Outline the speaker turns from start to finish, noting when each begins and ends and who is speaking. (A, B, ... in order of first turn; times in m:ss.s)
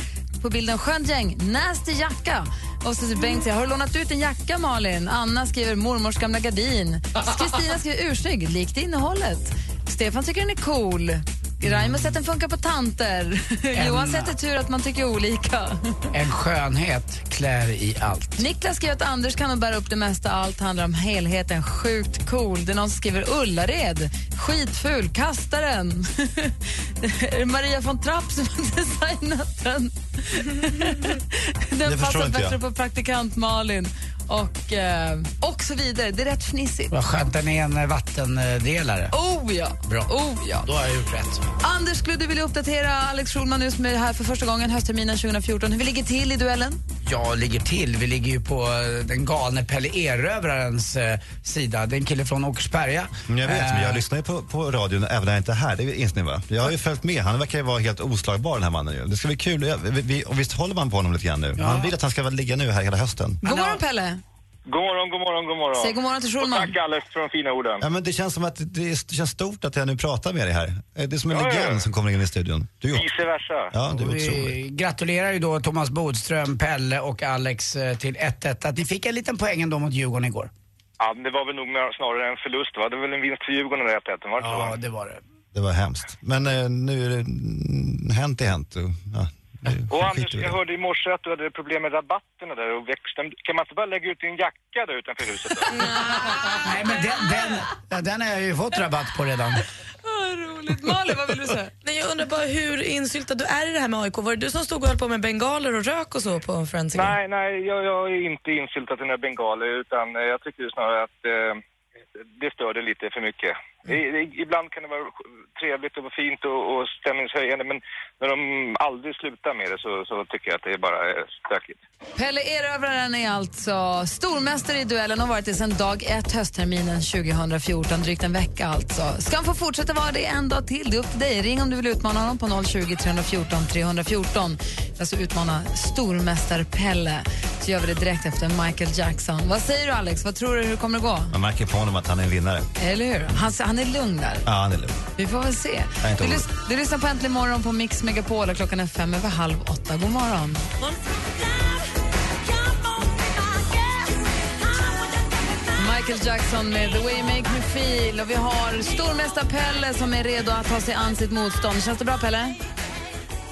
0:00.4-0:16.0 A
0:11.7-0:12.0 B
0:13.7-0:14.3 B
0:16.1-0:18.4 B
0:18.4-0:36.9 A
0:31.8-0:32.6 C
0:36.9-0:39.1 B
0:39.1-0:40.7 A
0:40.7-0:41.4 B
0:41.6-0:46.8 A
0:47.0-0:54.0 B
0:53.3-1:03.4 C
1:01.6-1:01.9 B
1:03.4-1:04.2 A
1:04.7-1:07.8 D
1:05.8-1:06.7 A
1:07.8-1:13.1 C
1:11.3-1:11.9 D
1:12.9-1:13.8 D
1:13.7-1:14.6 C
1:13.9-1:20.5 B
1:21.0-1:24.8 D
1:24.4-1:25.2 B
1:25.5-1:30.6 C
1:29.9-1:35.9 D
1:35.8-1:39.6 B
1:40.0-1:41.7 A
1:41.8-1:47.2 E
1:46.9-1:51.6 D
1:52.4-2:01.8 D
2:02.2-2:21.3 A
2:21.3-2:22.7 C
2:22.8-2:24.5 A
2:24.5-2:25.0 C
2:25.2-2:30.7 A
2:26.0-2:26.5 C
2:35.8-2:42.6 A